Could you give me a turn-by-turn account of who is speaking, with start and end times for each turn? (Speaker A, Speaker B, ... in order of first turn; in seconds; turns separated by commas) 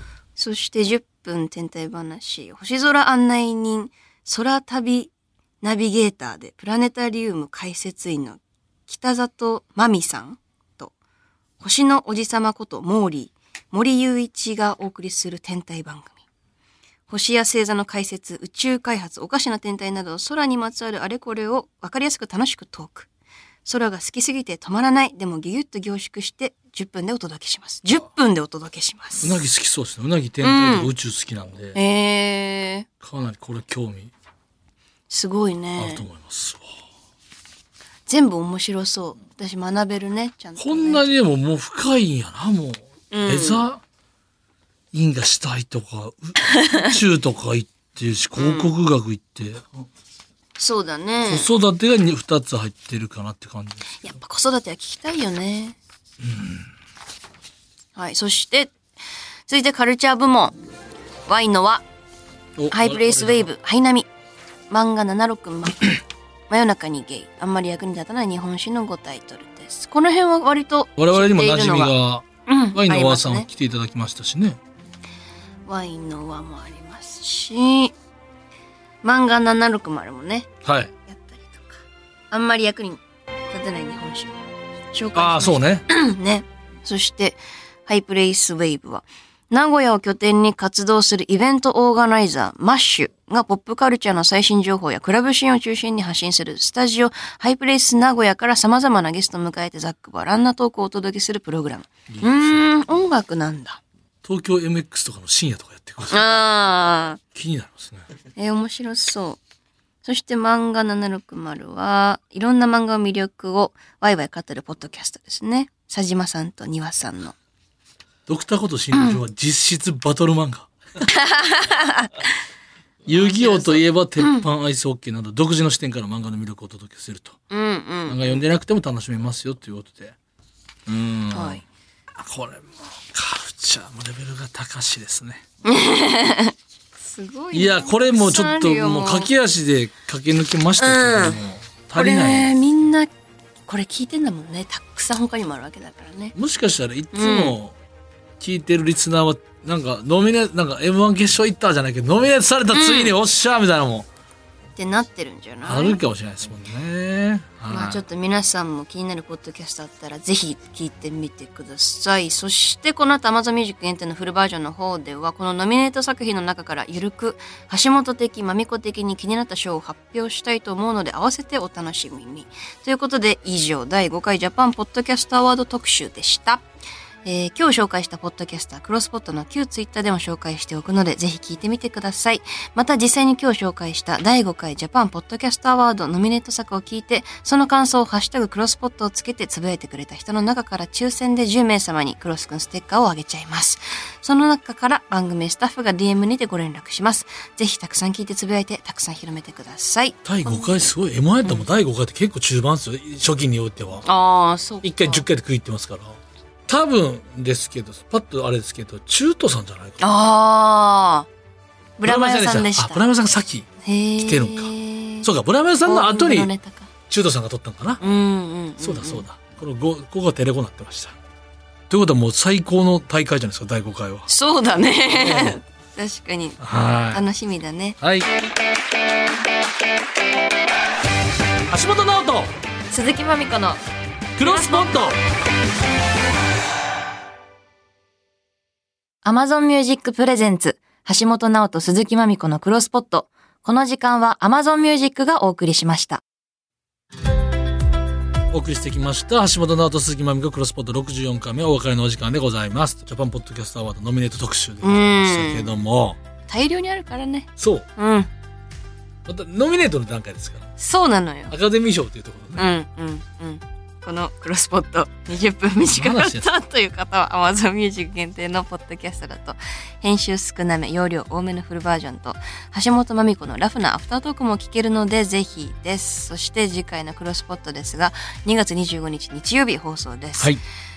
Speaker A: 0.4-10.9, Speaker A: 11.6-16.2, Speaker A: 17.1-23.1, Speaker A: 23.6-29.4, Speaker B: 29.2-31.8, Speaker A: 30.4-30.9, Speaker A: 31.7-32.9, Speaker B: 33.0-34.1, Speaker A: 35.1-36.0, Speaker B: 35.8-36.7, Speaker A: 38.1-41.0, Speaker B: 40.6-43.8, Speaker A: 43.1-43.6, Speaker B: 44.9-49.6, Speaker A: 48.4-48.7, Speaker A: 50.6-51.5, Speaker B: 51.2-54.0, Speaker A: 54.0-55.8, Speaker B: 56.2-56.7, Speaker A: 58.0-58.7, Speaker A: 59.5-60.5, Speaker A: 61.3-61.8, Speaker B: 62.6-63.5, Speaker A: 62.7-64.1, Speaker A: 64.7-73.5, Speaker B: 71.0-74.6, Speaker A: 75.7-78.0, Speaker A: 79.0-80.5, Speaker B: 80.7-80.9, Speaker A: 81.1-84.4, Speaker A: 84.9-103.8, Speaker B: 85.2-85.8, Speaker B: 102.1-102.7, Speaker B: 104.2-106.4, Speaker A: 106.1-107.2, Speaker B: 107.3-108.1, Speaker A: 108.4-109.4, Speaker A: 110.0-117.3, Speaker B: 118.3-120.7, Speaker A: 118.9-119.2, Speaker A: 121.1-122.3, Speaker B: 123.1-127.4, Speaker A: 123.1-124.5, Speaker A: 127.5-128.4, Speaker B: 128.1-130.2, Speaker B: 130.9-131.6, Speaker A: 131.3-131.6, Speaker B: 132.2-135.4, Speaker A: 135.6-139.3, Speaker B: 137.5-142.5, Speaker A: 140.8-141.4, Speaker A: 141.9-143.1, Speaker A: 143.7-146.3, Speaker B: 146.4-147.8, Speaker A: 147.1-147.6, Speaker B: 148.4-154.1, Speaker A: 152.7-153.1, Speaker A: 154.8-156.0, Speaker B: 155.7-158.0, Speaker A: 157.7-176.7, Speaker A: 177.2-200.9, Speaker B: 200.2-204.1, Speaker A: 204.0-205.2, Speaker B: 204.8-206.2, Speaker B: 206.7-210.1, Speaker A: 210.0-211.3, Speaker A: 212.0-213.0, Speaker B: 212.0-213.7, Speaker A: 213.8-215.3, Speaker B: 214.2-216.5, Speaker A: 215.8-216.9, Speaker B: 217.1-218.0, Speaker A: 218.0-219.2, Speaker B: 218.8-221.2, Speaker B: 221.9-224.3, Speaker A: 224.3-226.6, Speaker B: 225.1-225.6, Speaker B: 226.6-227.2, Speaker A: 227.1-228.0, Speaker B: 228.0-228.3, Speaker B: 231.7-232.5, Speaker A: 232.9-233.8, Speaker B: 234.4-235.2, Speaker A: 234.4-235.0, Speaker A: 239.2-246.2, Speaker B: 248.5-256.2, Speaker A: 254.8-255.8, Speaker A: 256.5-258.3, Speaker B: 257.6-257.9, Speaker B: 259.3-260.7, Speaker A: 260.8-261.6, Speaker B: 261.5-262.7, Speaker A: 262.6-280.6, Speaker B: 265.9-266.5